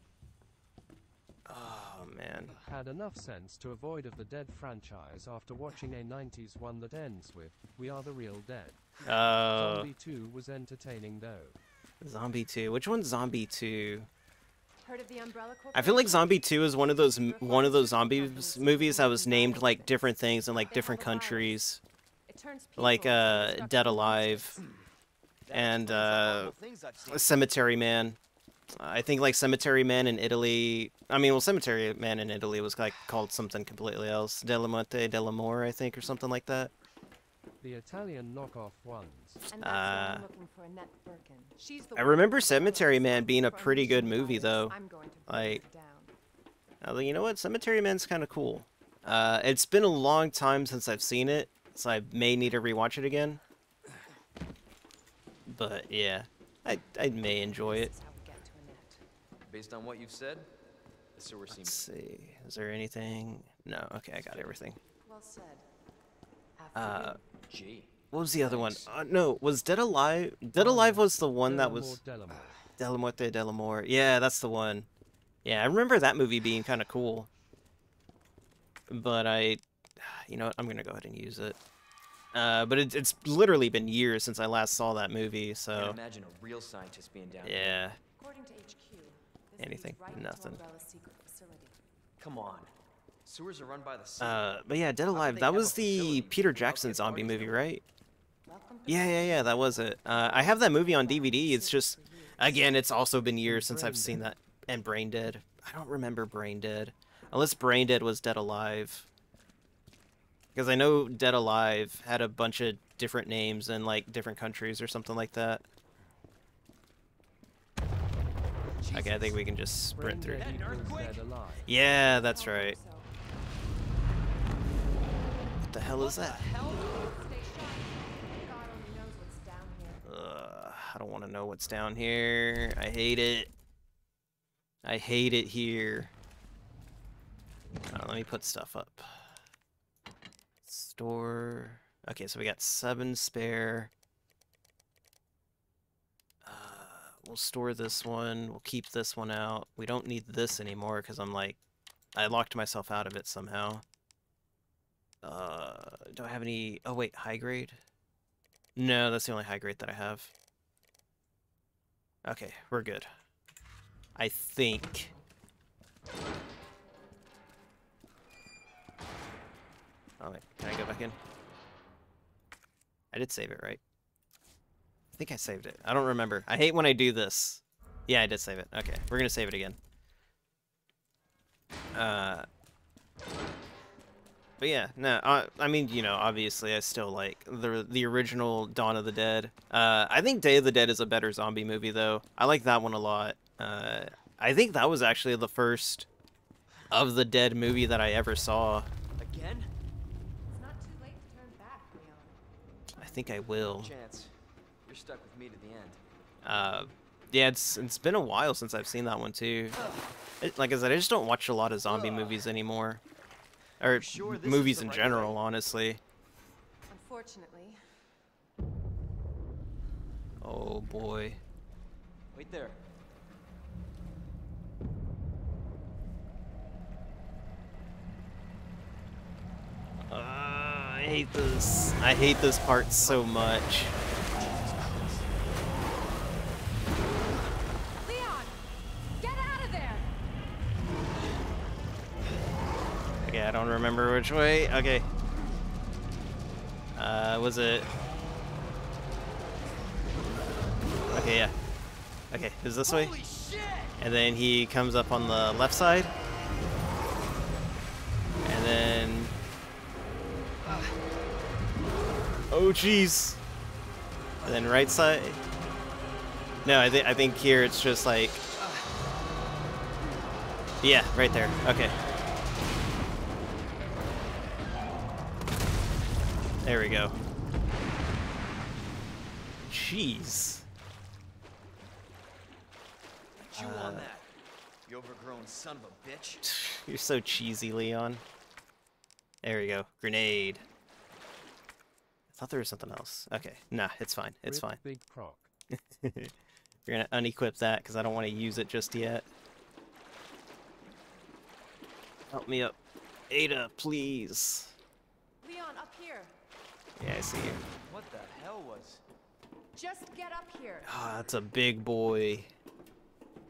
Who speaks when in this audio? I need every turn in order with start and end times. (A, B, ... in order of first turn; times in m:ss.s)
0:01.5-0:02.5 A
0:02.5-0:11.6 B
0:09.0-0:09.9 A
0:12.0-0:14.1 A
0:14.8-0:16.5 C
0:15.7-0:21.8 A
0:17.0-0:21.6 C
0:22.3-0:24.6 C
0:22.8-0:24.6 A
0:25.4-0:27.7 D
0:25.5-0:26.5 A
0:27.1-0:28.2 A
0:28.7-0:36.7 A
0:37.6-0:39.4 B
0:39.5-0:46.1 C
0:39.6-0:40.2 A
0:41.9-0:44.7 A
0:45.3-0:45.6 A
0:46.8-0:53.4 A
0:55.5-0:57.9 A
0:57.1-0:59.0 C
0:59.4-1:00.5 D
1:01.2-1:01.8 D
1:01.5-1:04.8 A
1:05.0-1:05.7 C
1:06.6-1:07.2 C
1:06.7-1:07.2 A
1:07.5-1:08.9 D
1:08.1-1:12.0 A
1:10.5-1:12.6 B
1:12.8-1:14.9 A
1:15.4-1:17.3 A
1:18.9-1:21.6 A
1:22.3-1:26.0 A
1:25.7-1:27.8 D
1:27.4-1:28.0 A
1:28.2-1:31.8 C
1:29.6-1:30.6 A
1:32.2-1:32.7 D
1:33.2-1:34.5 D
1:34.2-1:37.8 A
1:35.1-1:37.7 D
1:38.5-1:42.8 C
1:38.8-1:49.1 A
1:43.4-1:44.3 B
1:50.5-1:55.6 A
1:58.8-1:59.4 D
1:58.9-2:00.5 A
1:59.9-2:01.7 B
2:00.3-2:01.3 D
2:01.6-2:02.8 A
2:01.7-2:03.1 C
2:05.7-2:06.4 A
2:06.0-2:10.0 C
2:10.0-2:13.5 A
2:14.8-2:16.1 A
2:17.9-2:19.4 A
2:20.6-2:23.9 A
2:26.4-2:31.6 A
2:32.1-2:33.8 A
2:35.2-2:37.8 A
2:38.8-2:40.3 A
2:42.2-2:43.1 A
2:44.2-2:45.1 A
2:50.2-2:51.2 A
2:53.1-2:53.8 A
2:55.2-2:59.8 A
3:01.9-3:02.5 A
3:04.6-3:16.1 A
3:16.9-3:18.9 A
3:19.2-3:19.7 D
3:20.5-3:22.4 C
3:23.0-3:23.9 A
3:23.8-3:24.3 D
3:24.8-3:26.0 D
3:26.4-3:29.8 A
3:30.4-3:33.0 A
3:31.8-3:32.4 D
3:33.8-3:36.0 A
3:33.9-3:35.4 D
3:36.9-3:37.8 C
3:40.4-3:41.4 A
3:42.3-3:42.8 D
3:50.1-3:53.9 A
3:53.0-3:53.3 D
3:53.9-3:55.3 D
3:58.0-3:58.6 C
3:59.2-4:00.1 C
4:03.2-4:05.1 A
4:07.0-4:07.9 A
4:11.1-4:11.5 A
4:12.3-4:13.2 A
4:12.8-4:14.0 D
4:14.0-4:16.1 A
4:18.4-4:19.3 A
4:20.6-4:20.9 D
4:22.5-4:23.4 A
4:24.4-4:25.4 A
4:26.6-4:28.4 A
4:30.8-4:31.9 A
4:36.6-4:37.1 A
4:39.6-4:40.6 A
4:43.4-4:44.3 D
4:43.5-4:44.1 A
4:44.8-4:46.5 D
4:46.4-4:48.2 A
4:49.4-4:50.6 A
4:52.3-4:54.8 A
4:54.4-4:55.5 B
4:55.7-4:56.3 A
4:56.8-4:59.2 A
5:02.3-5:02.8 A
5:03.3-5:04.7 A
5:05.4-5:06.3 C
5:07.0-5:07.6 A
5:07.8-5:09.0 D
5:09.7-5:10.9 C
5:10.8-5:12.5 A